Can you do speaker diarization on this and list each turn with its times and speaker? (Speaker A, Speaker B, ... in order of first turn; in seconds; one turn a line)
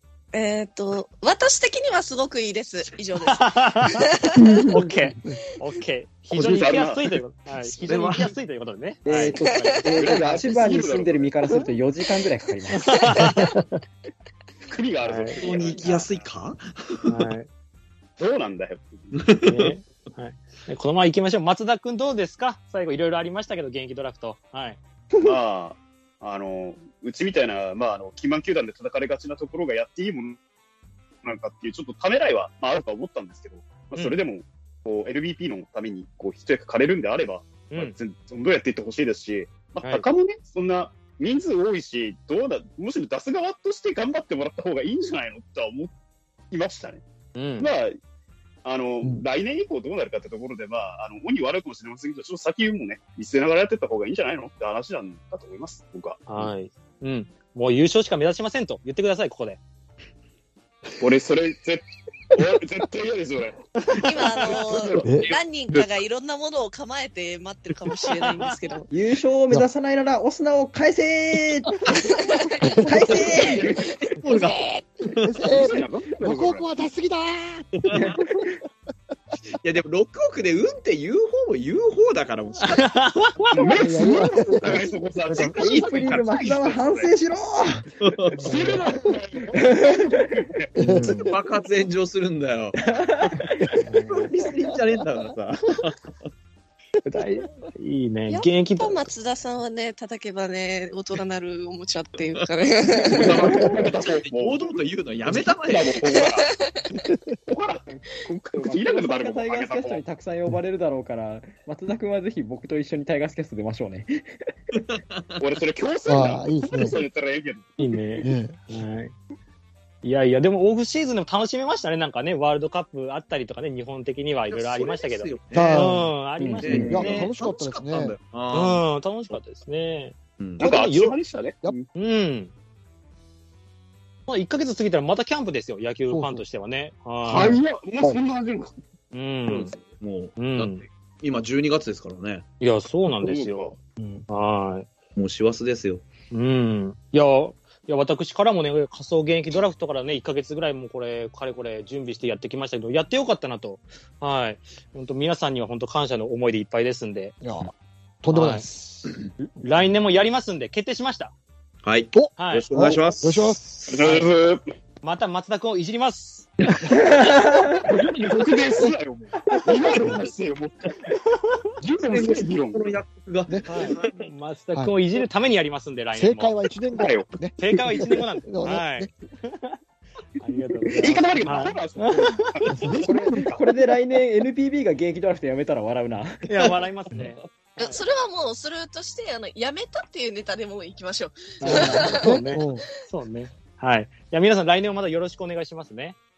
Speaker A: 0.3-4.7
Speaker B: 3.3-4.2
Speaker B: 4.7-10.3
Speaker C: 6.3-6.6
Speaker D: 6.3-7.1
Speaker C: 7.6-8.3
Speaker E: 9.1-13.0
Speaker A: 9.5-9.8
Speaker D: 9.9-11.3
Speaker B: 12.7-13.6
Speaker D: 14.7-16.2
Speaker B: 15.0-15.4
Speaker C: 15.4-17.2
Speaker B: 17.1-17.5
Speaker D: 18.2-19.1
Speaker C: 19.1-19.7
Speaker B: 19.4-24.8
Speaker D: 25.2-30.4
Speaker D: 31.2-45.9
Speaker B: 37.7-38.0
Speaker B: 39.8-40.1
Speaker D: 46.5-47.0
Speaker B: 47.4-47.7
Speaker D: 47.6-48.0
Speaker D: 48.6-56.2
Speaker B: 56.3-59.6
Speaker D: 61.0-65.4
Speaker B: 63.9-64.6
Speaker A: 64.0-68.9
Speaker F: 65.0-65.3
Speaker E: 68.9-72.1
Speaker A: 72.1-72.8
Speaker F: 72.7-73.0
Speaker E: 72.8-73.7
Speaker D: 73.1-74.2
Speaker C: 74.2-75.4
Speaker F: 74.3-74.6
Speaker F: 75.1-78.2
Speaker D: 75.5-76.7
Speaker C: 79.6-83.0
Speaker B: 82.8-83.6
Speaker D: 83.5-87.1
Speaker F: 83.6-84.9
Speaker C: 84.0-86.4
Speaker E: 85.5-87.9
Speaker C: 88.0-88.5
Speaker F: 88.3-89.1
Speaker D: 88.4-90.7
Speaker E: 89.5-90.3
Speaker F: 90.8-91.3
Speaker C: 90.8-92.8
Speaker E: 92.8-93.7
Speaker B: 93.8-94.3
Speaker C: 94.0-96.1
Speaker B: 97.0-99.1
Speaker A: 98.3-103.3
Speaker D: 103.1-106.5
Speaker C: 103.1-106.0
Speaker A: 106.2-106.8
Speaker D: 107.5-107.8
Speaker E: 107.9-114.3
Speaker D: 108.5-110.0
Speaker C: 114.7-115.4
Speaker D: 115.4-118.0
Speaker F: 116.1-117.0
Speaker B: 117.8-119.1
Speaker F: 118.2-118.6
Speaker B: 120.0-127.3
Speaker C: 124.5-125.9
Speaker F: 125.5-128.2
Speaker E: 126.4-127.0
Speaker C: 126.6-129.4
Speaker B: 128.5-131.2
Speaker C: 130.4-130.7
Speaker D: 130.6-131.9
Speaker B: 131.9-132.5
Speaker B: 134.3-137.6
Speaker F: 136.1-136.4
Speaker D: 137.3-138.7
Speaker B: 139.1-139.8
Speaker C: 139.5-142.4
Speaker B: 140.4-140.8
Speaker B: 142.6-143.8
Speaker D: 143.2-143.8
Speaker B: 144.3-144.9
Speaker C: 145.2-146.1
Speaker B: 146.3-157.3
Speaker F: 157.4-157.7
Speaker F: 158.2-159.2
Speaker B: 158.3-158.7
Speaker B: 159.6-161.3
Speaker C: 161.8-163.6
Speaker F: 162.1-164.2
Speaker B: 162.4-162.7
Speaker D: 163.9-164.7
Speaker B: 165.0-166.5
Speaker E: 167.0-167.8
Speaker D: 167.8-171.1
Speaker E: 169.4-169.8
Speaker D: 171.8-172.9
Speaker C: 172.1-174.3
Speaker F: 173.5-173.9
Speaker B: 173.7-176.6
Speaker F: 176.2-179.1
Speaker D: 176.9-177.3
Speaker B: 177.6-179.8
Speaker B: 180.4-182.5
Speaker D: 180.9-183.6
Speaker F: 182.8-183.1
Speaker E: 183.1-186.4
Speaker B: 186.4-188.0
Speaker A: 187.8-192.3
Speaker B: 191.6-196.2
Speaker E: 191.6-192.0
Speaker F: 191.7-192.8